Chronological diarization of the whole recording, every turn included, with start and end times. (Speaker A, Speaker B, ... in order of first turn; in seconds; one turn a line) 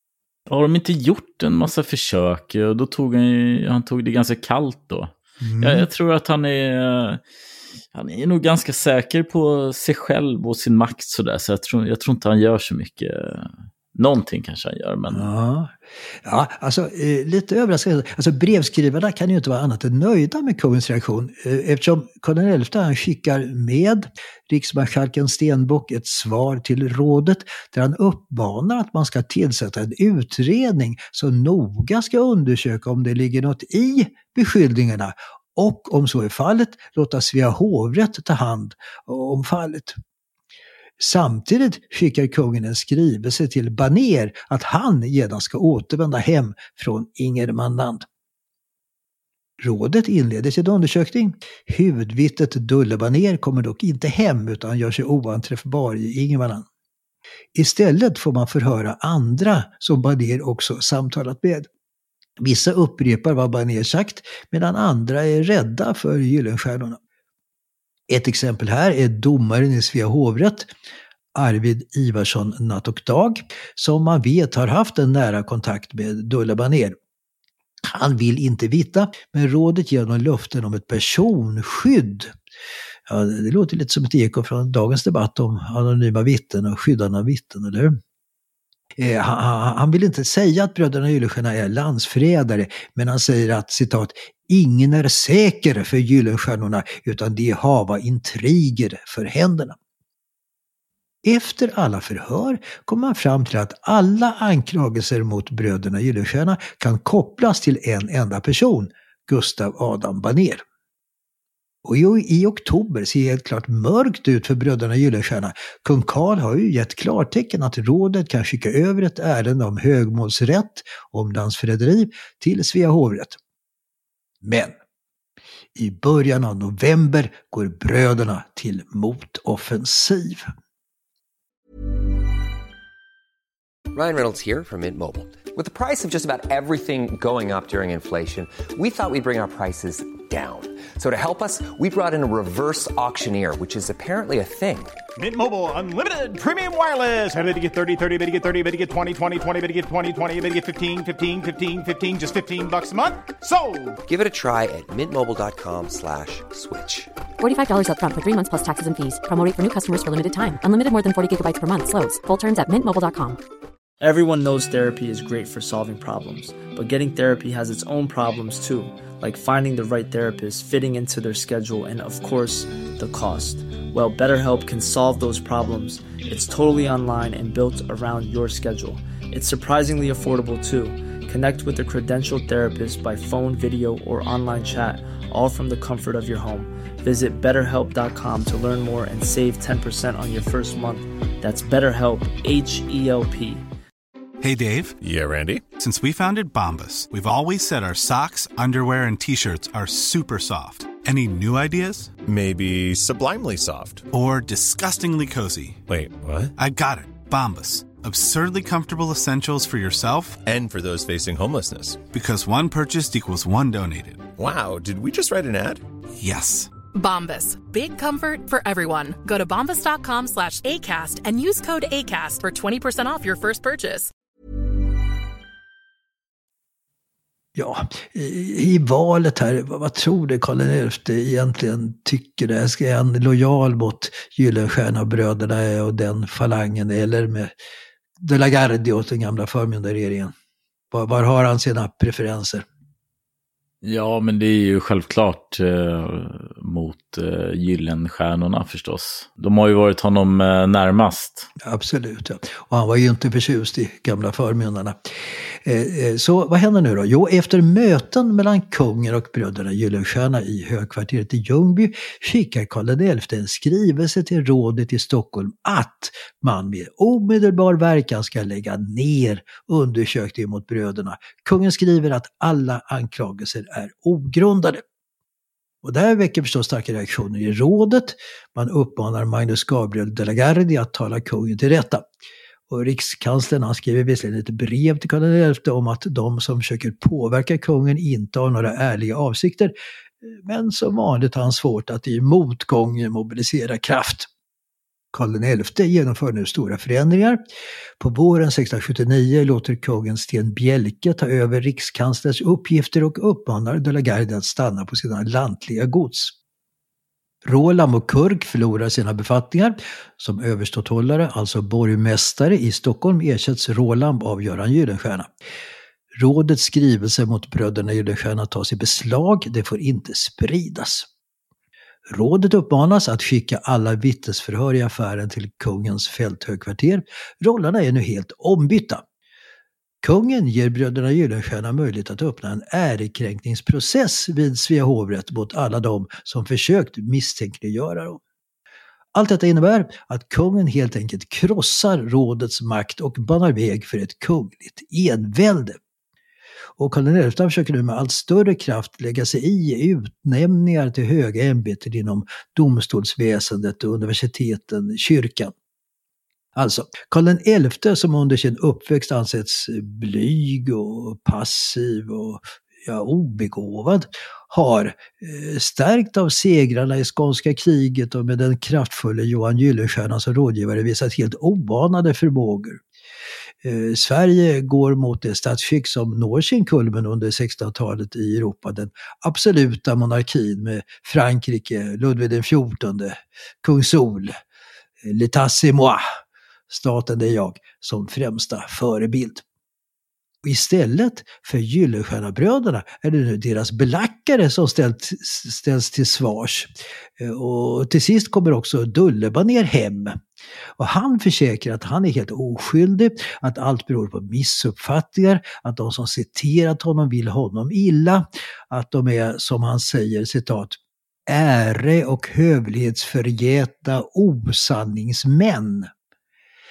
Speaker A: 0.5-7.2
Speaker B: 5.4-5.9
Speaker A: 7.9-15.3
Speaker B: 15.1-40.0
Speaker B: 41.0-48.1
Speaker B: 49.6-56.7
Speaker B: 57.5-61.7
Speaker B: 62.4-67.0
Speaker B: 68.1-70.7
Speaker B: 71.3-77.0
Speaker B: 77.8-82.3
Speaker B: 83.1-88.0
Speaker B: 89.0-99.8
Speaker B: 101.2-110.6
Speaker B: 111.8-123.4
Speaker B: 124.4-124.7
Speaker B: 125.8-130.5
Speaker C: 133.9-144.9
Speaker D: 145.2-154.0
Speaker C: 154.1-157.1
Speaker E: 157.4-163.4
Speaker F: 164.0-193.6
Speaker G: 194.4-195.0
Speaker H: 195.0-195.7
Speaker G: 195.8-202.1
Speaker H: 202.2-204.1
Speaker G: 204.1-205.8
Speaker H: 205.9-206.5
Speaker G: 206.6-210.4
Speaker H: 210.4-212.1
Speaker G: 212.1-214.3
Speaker H: 214.4-215.8
Speaker G: 216.2-216.7
Speaker I: 216.9-224.1
Speaker B: 227.6-237.5
Speaker B: 238.2-240.3
Speaker B: 240.9-242.7
Speaker A: 243.8-251.5
Speaker B: 251.6-255.1
Speaker B: 255.6-274.8
Speaker B: 275.8-282.1
Speaker B: 282.7-289.7
Speaker B: 290.2-294.3
Speaker B: 295.1-297.4
Speaker B: 298.0-306.3
Speaker B: 307.4-315.3
Speaker B: 316.2-321.1
Speaker B: 322.1-329.0
Speaker B: 330.0-338.2
Speaker B: 339.1-345.8
Speaker B: 346.8-355.5
Speaker B: 356.6-372.8
Speaker B: 373.6-384.3
Speaker B: 385.0-386.0
Speaker B: 386.7-389.4
Speaker B: 390.4-400.2
Speaker B: 400.8-415.9